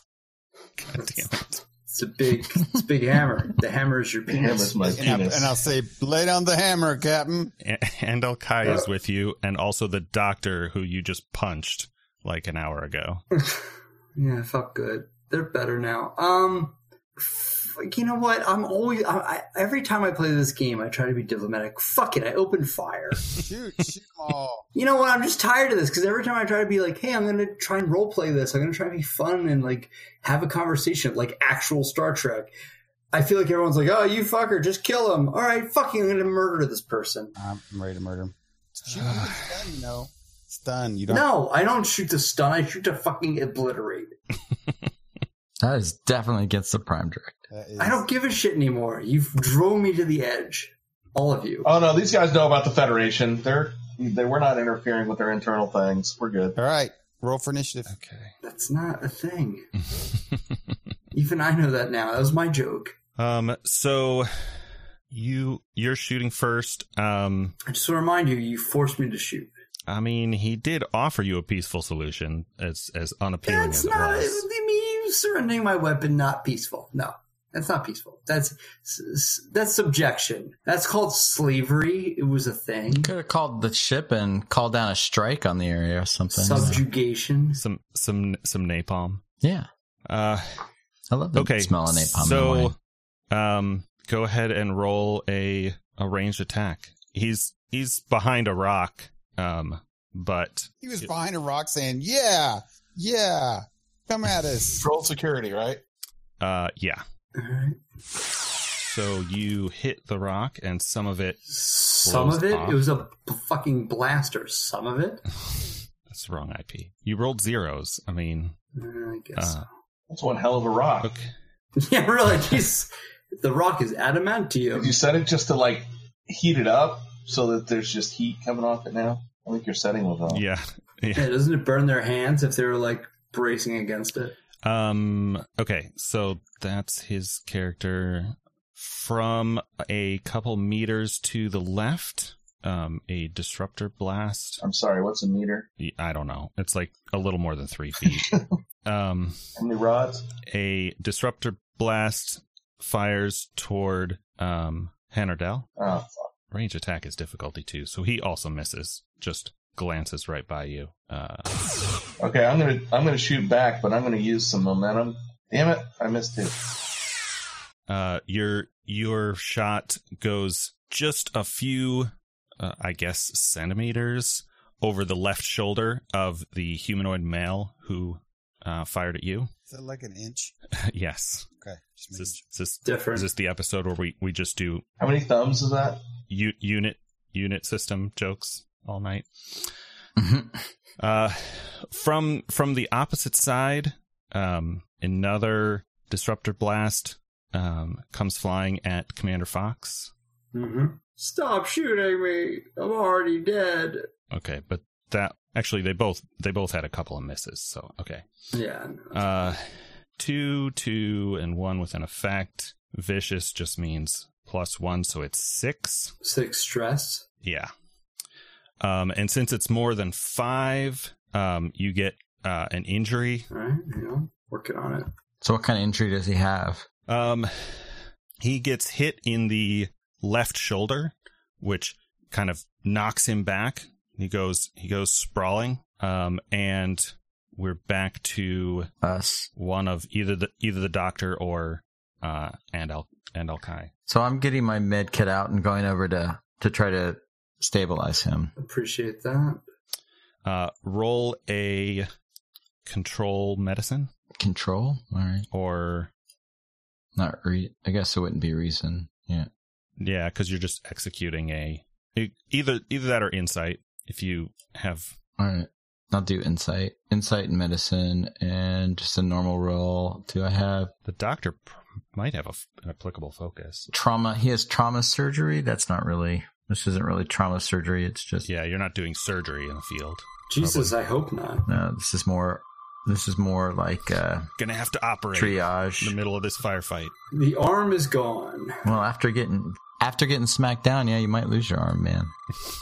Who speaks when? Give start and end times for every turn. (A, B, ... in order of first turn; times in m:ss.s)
0:00.8-0:01.6 A
0:01.9-0:05.1 B
0:04.3-0:05.6 C
0:04.9-0:07.5 D
0:07.6-0:13.2 A
0:14.2-0:23.4 B
0:23.3-0:24.7 D
0:24.8-0:32.5 B
0:33.1-0:37.3 B
0:37.4-0:41.3 D
0:41.1-0:44.1 B
0:45.6-0:47.5 E
0:47.5-0:48.0 D
0:47.8-0:51.7 B
0:51.6-0:56.6 C
0:56.6-0:57.9 D
0:57.9-0:58.3 A
0:58.4-0:59.7 B
1:01.1-1:03.0 B
1:03.2-1:04.5 A
1:05.1-1:07.6 A
1:07.7-1:09.5 B
1:09.9-1:14.5 A
1:13.5-1:23.1 B
1:22.9-1:26.8 E
1:26.3-1:27.6 B
1:27.6-1:29.2 A
1:29.4-1:29.7 E
1:30.1-1:30.6 A
1:31.1-1:32.7 E
1:31.4-1:32.8 A
1:33.3-1:41.1 A
1:40.8-1:44.8 D
1:44.7-1:45.8 C
1:46.4-1:47.0 A
1:47.4-1:47.8 B
1:48.8-1:51.4 A
1:51.5-1:55.2 B
1:52.0-1:52.8 A
1:56.1-1:58.6 A
1:58.8-1:59.7 B
1:59.4-1:59.6 A
2:00.1-2:01.1 C
2:01.0-2:01.3 A
2:01.8-2:04.9 B
2:04.7-2:10.4 C
2:10.3-2:11.3 A
2:11.2-2:14.4 B
2:14.6-2:24.6 A
2:24.6-2:25.7 C
2:25.8-2:28.3 A
2:28.8-2:29.4 A
2:29.6-2:30.2 C
2:30.5-2:35.7 A
2:35.8-2:36.3 C
2:36.5-2:41.5 A
2:42.2-2:46.6 C
2:47.9-2:59.5 A
2:59.7-3:00.5 D
3:00.8-3:01.5 A
3:01.6-3:02.4 D
3:02.1-3:04.8 A
3:02.8-3:03.3 B
3:05.0-3:06.0 C
3:06.3-3:09.7 A
3:10.2-3:10.6 E
3:11.0-3:20.1 A
3:20.5-3:24.1 B
3:24.3-3:28.2 A
3:28.5-3:29.2 B
3:29.1-3:29.6 A
3:30.2-3:36.1 A
3:36.2-3:37.2 B
3:37.4-3:37.7 A
3:38.8-3:43.5 A
3:43.5-3:45.1 B
3:45.4-3:46.9 E
3:47.1-3:47.8 A
3:48.4-3:58.9 A
3:59.0-3:59.5 E
3:59.6-4:03.9 A
4:04.1-4:08.5 E
4:08.6-4:09.6 B
4:10.4-4:12.1 A
4:12.9-4:14.1 A
4:14.4-4:15.5 E
4:15.5-4:16.1 A
4:17.2-4:19.5 E
4:20.0-4:25.1 A
4:25.4-4:30.9 E
4:31.0-4:33.9 A
4:33.9-4:38.5 E
4:38.4-4:40.9 A
4:40.5-4:41.7 B
4:41.7-4:44.5 E
4:44.6-4:47.1 A
4:45.3-4:46.2 E
4:47.3-4:48.9 B
4:48.8-4:52.3 E